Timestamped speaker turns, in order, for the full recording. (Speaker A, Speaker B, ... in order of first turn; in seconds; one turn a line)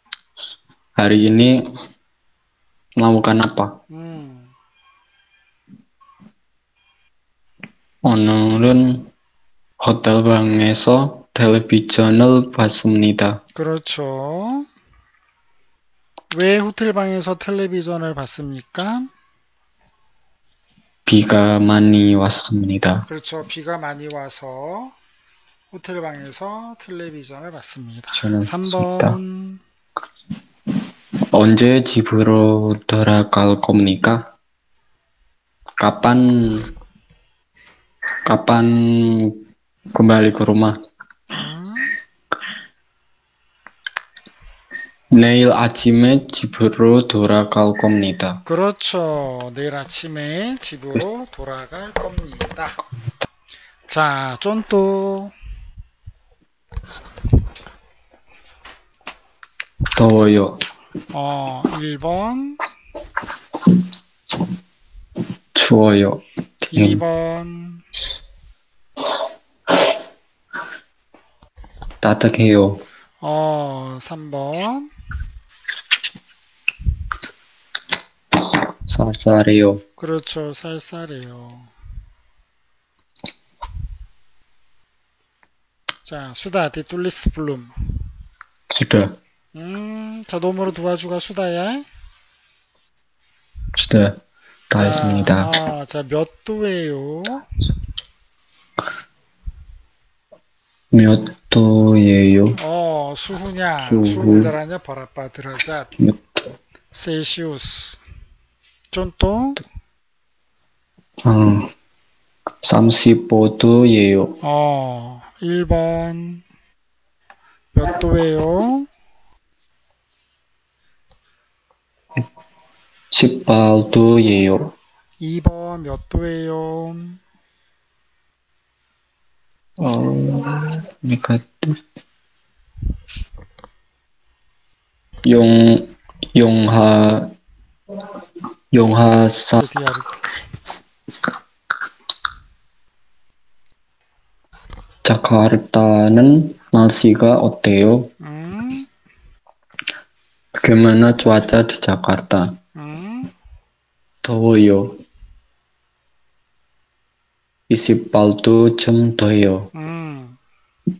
Speaker A: 1.0-1.6
Speaker A: 3.0-3.8
Speaker B: 3.9-4.5
Speaker A: 8.0-9.1
Speaker A: 9.8-13.4
Speaker B: 13.5-14.7
Speaker B: 16.3-19.1
Speaker A: 21.1-23.1
Speaker B: 23.1-24.9
Speaker B: 25.7-29.6
Speaker A: 28.1-29.1
Speaker A: 31.3-34.3
Speaker A: 35.8-36.7
Speaker A: 38.2-39.4
Speaker A: 39.9-40.8
Speaker B: 41.3-41.9
Speaker A: 45.1-48.4
Speaker B: 48.5-52.8
Speaker B: 53.9-55.3
Speaker A: 59.9-60.6
Speaker B: 61.1-62.6
Speaker A: 65.5-67.0
Speaker B: 66.7-67.8
Speaker A: 72.0-72.8
Speaker B: 73.2-74.9
Speaker A: 78.8-79.8
Speaker B: 80.0-81.7
Speaker B: 86.0-87.7
Speaker A: 88.7-89.2
Speaker B: 89.5-91.9
Speaker A: 93.7-94.2
Speaker A: 94.7-95.5
Speaker B: 94.7-97.5
Speaker A: 100.9-102.6
Speaker B: 102.6-105.9
Speaker A: 103.8-104.5
Speaker B: 106.9-108.0
Speaker B: 108.9-109.6
Speaker A: 111.2-111.7
Speaker A: 112.6-114.4
Speaker B: 114.4-116.4
Speaker B: 117.7-118.9
Speaker A: 123.1-124.7
Speaker B: 125.2-127.2
Speaker A: 129.8-131.8
Speaker A: 135.2-137.3
Speaker A: 138.7-139.7
Speaker B: 139.5-140.2
Speaker A: 145.0-148.1
Speaker B: 148.2-148.9
Speaker A: 150.6-152.6
Speaker B: 152.8-153.3
Speaker A: 154.2-155.0
Speaker A: 157.7-159.7
Speaker B: 159.7-160.4